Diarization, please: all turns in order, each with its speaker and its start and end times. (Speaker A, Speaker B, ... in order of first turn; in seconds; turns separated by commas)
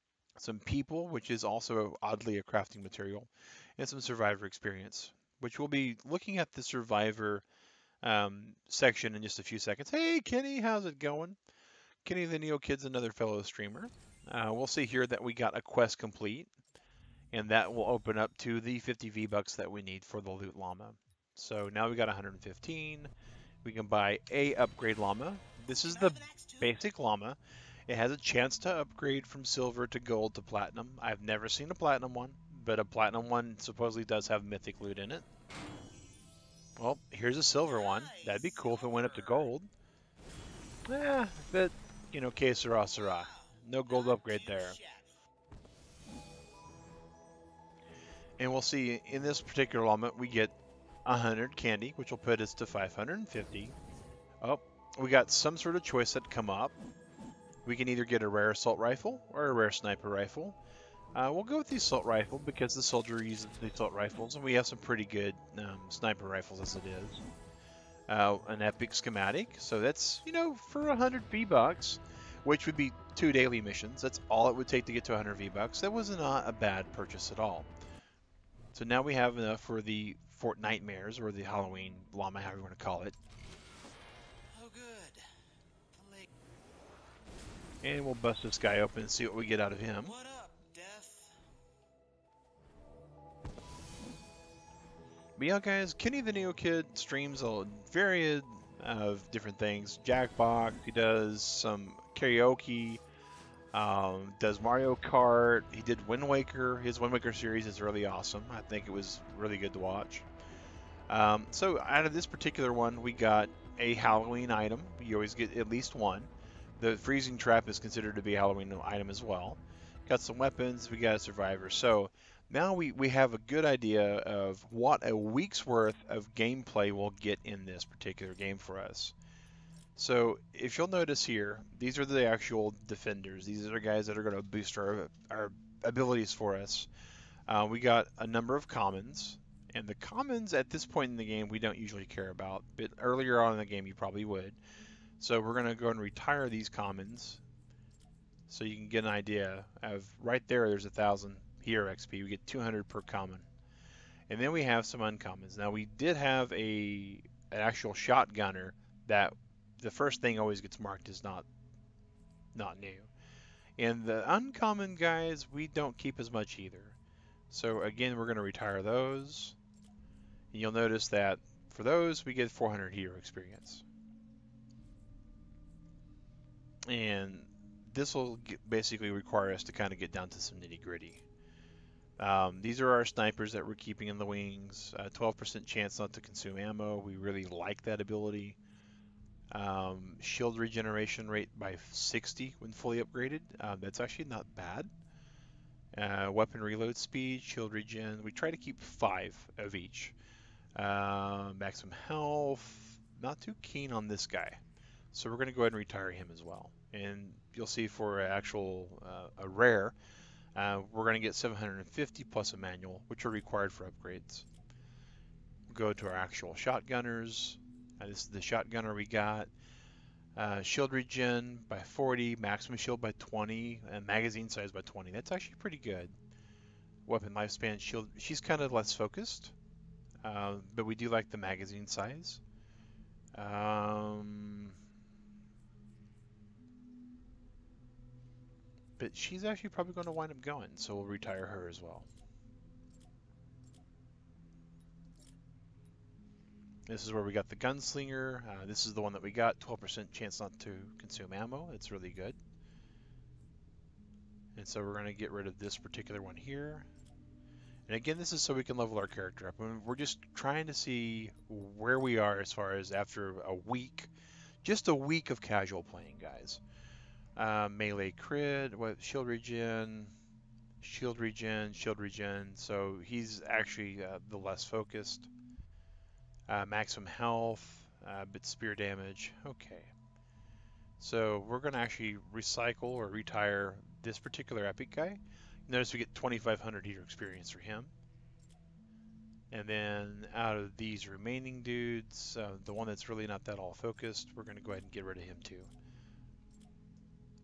Speaker A: 0.4-7.4, Speaker A: 8.0-11.4, Speaker A: 12.0-16.5, Speaker A: 17.3-23.1, Speaker A: 23.6-27.4, Speaker B: 25.8-26.8, Speaker A: 27.9-35.2, Speaker A: 36.8-39.7, Speaker B: 37.6-39.5, Speaker A: 40.9-44.8, Speaker B: 42.9-45.1, Speaker A: 48.4-53.7, Speaker A: 54.4-56.8, Speaker A: 57.6-60.5, Speaker A: 61.1-67.2, Speaker A: 68.1-77.7, Speaker A: 78.7-83.2, Speaker B: 84.5-85.4, Speaker B: 85.9-86.3, Speaker A: 87.8-90.1, Speaker B: 90.0-91.4, Speaker A: 95.4-103.0, Speaker A: 103.7-110.2, Speaker A: 111.1-129.1, Speaker A: 129.9-136.9, Speaker A: 137.5-144.6, Speaker A: 145.2-147.4, Speaker A: 148.5-153.5, Speaker A: 154.3-161.4, Speaker A: 162.5-163.1, Speaker A: 163.8-166.9, Speaker A: 167.5-169.6, Speaker A: 170.5-173.8, Speaker A: 176.8-181.2, Speaker A: 182.2-188.6, Speaker A: 189.5-194.9, Speaker A: 195.9-200.1, Speaker A: 200.7-204.6, Speaker A: 205.1-209.9, Speaker A: 210.5-214.4, Speaker A: 215.7-219.5, Speaker A: 220.3-226.2, Speaker A: 227.1-229.5, Speaker A: 230.2-232.4, Speaker A: 233.3-234.8, Speaker A: 239.0-242.1, Speaker A: 246.9-252.4, Speaker A: 254.6-256.9, Speaker A: 257.9-264.1, Speaker A: 264.6-266.6, Speaker A: 267.4-270.1, Speaker A: 270.8-275.3, Speaker A: 276.5-279.9, Speaker A: 281.0-287.9, Speaker A: 289.5-295.7